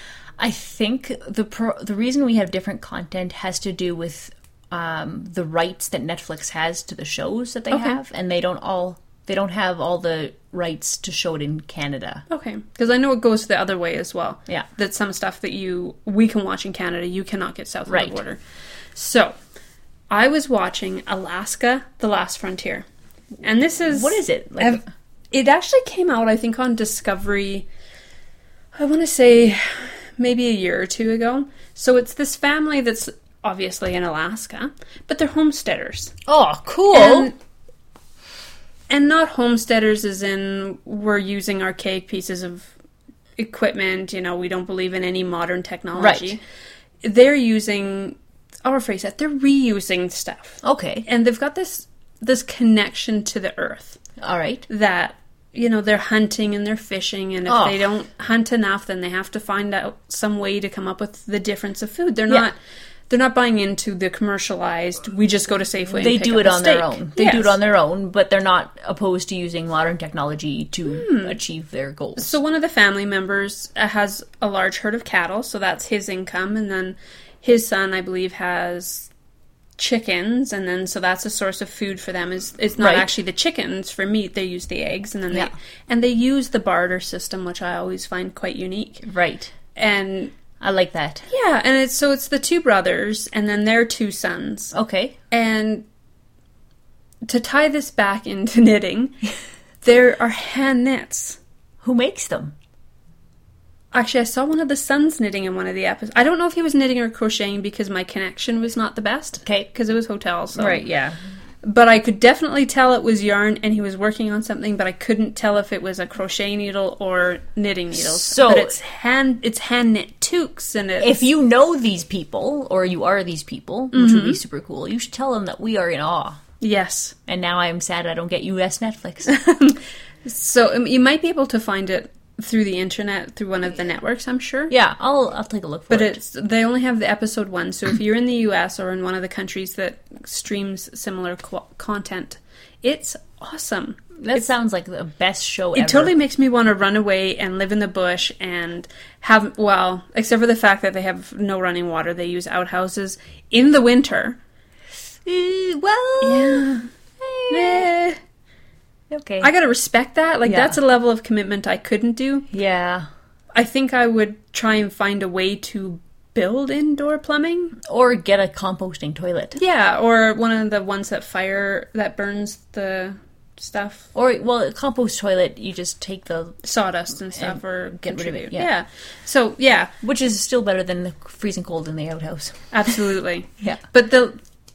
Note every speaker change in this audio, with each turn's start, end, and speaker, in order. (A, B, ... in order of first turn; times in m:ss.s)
0:00.4-0:12.2 A
0:07.7-0:08.0 B
0:12.3-0:18.4 B
0:17.9-0:18.2 A
0:18.9-0:19.3 B
0:20.1-0:22.8 B
0:23.4-0:27.7 B
0:23.9-0:24.9 A
0:28.7-0:36.1 B
0:36.2-0:37.3 A
0:36.9-0:37.3 B
0:38.9-0:42.7 B
0:43.4-0:46.4 B
0:46.0-0:46.4 A
0:47.0-0:54.0 B
0:50.6-0:51.0 A
0:54.2-0:54.6 A
0:54.7-1:02.6 B
0:57.5-0:57.8 A
1:03.1-1:07.6 B
1:05.9-1:12.4 A
1:10.9-1:11.4 B
1:12.2-1:19.1 B
1:19.8-1:29.0 B
1:22.8-1:23.1 A
1:29.0-1:29.5 A
1:29.7-1:30.3 B
1:30.6-1:31.3 A
1:31.3-1:34.7 B
1:34.7-1:35.2 A
1:35.3-1:35.8 B
1:37.2-1:39.2 B
1:39.8-1:41.4 B
1:41.8-1:42.5 A
1:43.9-1:50.8 B
1:50.5-1:51.2 A
1:51.6-2:01.1 B
1:58.0-1:58.8 A
2:01.0-2:06.4 A
2:03.9-2:04.4 B
2:06.6-2:07.2 B
2:07.3-2:09.3 A
2:09.2-2:14.7 B
2:14.7-2:16.2 A
2:15.9-2:24.4 B
2:24.2-2:26.1 A
2:25.7-2:34.4 B
2:35.2-2:37.9 A
2:36.2-2:36.9 B
2:37.5-2:38.2 B
2:39.1-2:39.5 A
2:39.4-2:42.5 B
2:40.4-2:40.8 A
2:42.5-2:43.1 A
2:43.5-2:47.8 B
2:47.8-2:49.6 A
2:49.6-2:54.1 B
2:54.1-2:56.6 A
2:56.6-2:59.9 B
2:57.3-2:58.7 A
3:00.0-3:02.7 A
3:02.7-3:04.4 B